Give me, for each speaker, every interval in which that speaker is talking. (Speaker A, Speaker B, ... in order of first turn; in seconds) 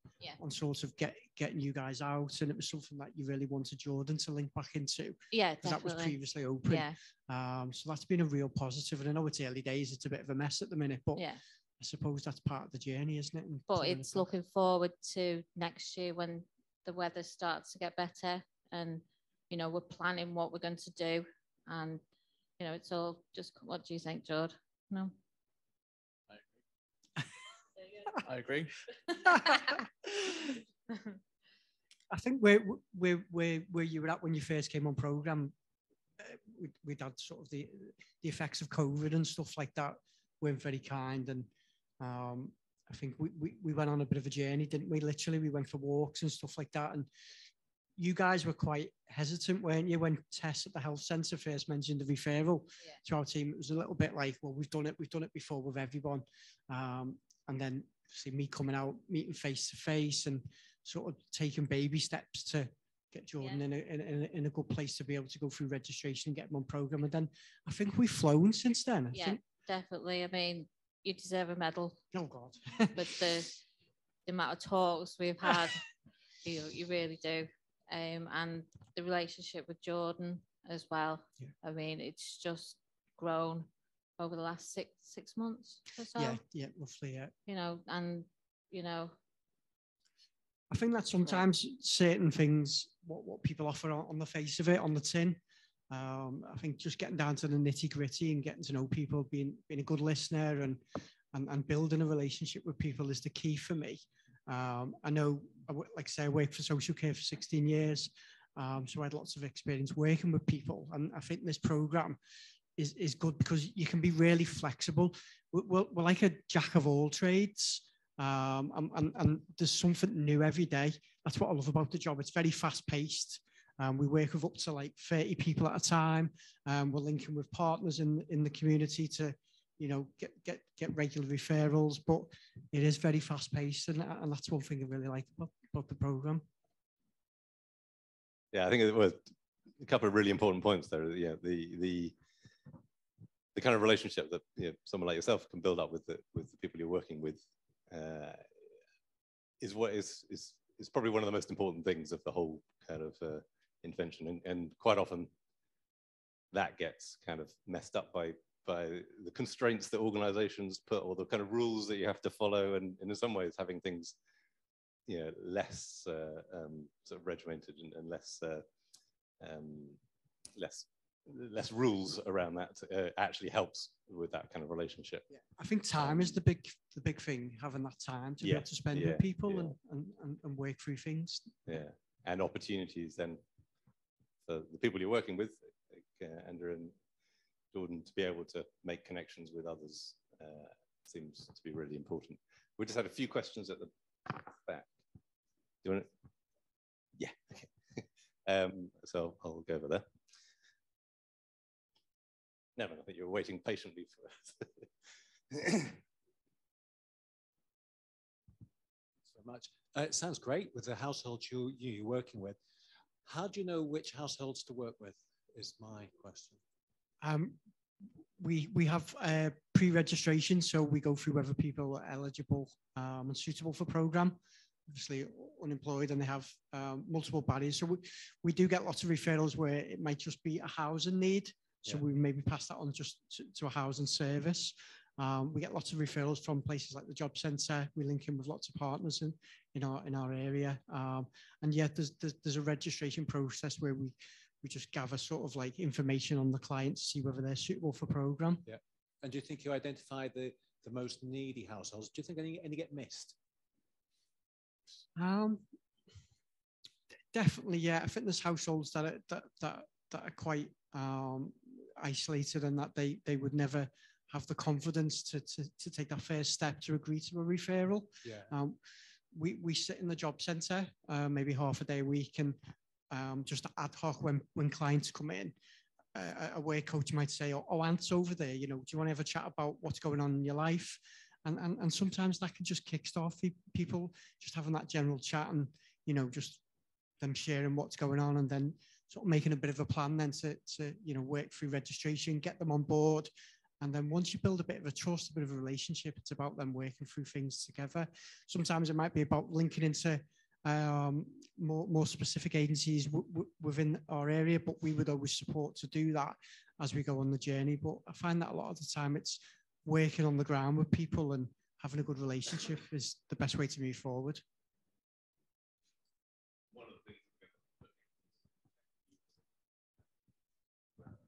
Speaker A: 0.4-11.3, 11.8-14.3, 29.3-29.8, 32.1-35.5, 36.2-41.5, 42.0-47.1, 48.0-69.4, 72.1-73.2, 86.1-87.3, 90.7-95.4, 95.9-100.8, 101.3-112.2, 112.8-136.4, 175.6-181.5, 217.2-217.6, 218.4-224.4, 224.9-248.7, 255.2-255.6, 257.3-268.8, 269.3-272.6, 273.1-275.6, 276.1-286.6, 287.2-314.4
Speaker B: 5.3-7.0, 11.2-11.4, 13.7-22.0, 22.6-25.1, 63.4-63.6, 69.1-72.0, 72.9-73.6, 74.3-75.8, 76.4-86.4, 87.5-89.2
Speaker C: 28.2-28.7, 209.3-212.6, 213.2-216.6, 248.7-253.4, 268.2-268.5
Speaker D: 138.5-139.2, 139.8-142.1, 143.6-148.4, 149.6-155.3, 156.5-164.2, 165.1-168.6, 169.4-170.0, 170.6-175.3, 176.0-176.4, 178.4-179.8, 181.7-183.4, 184.5-186.9, 187.7-194.9, 195.8-196.1, 197.2-200.1, 202.8-204.9, 205.5-206.0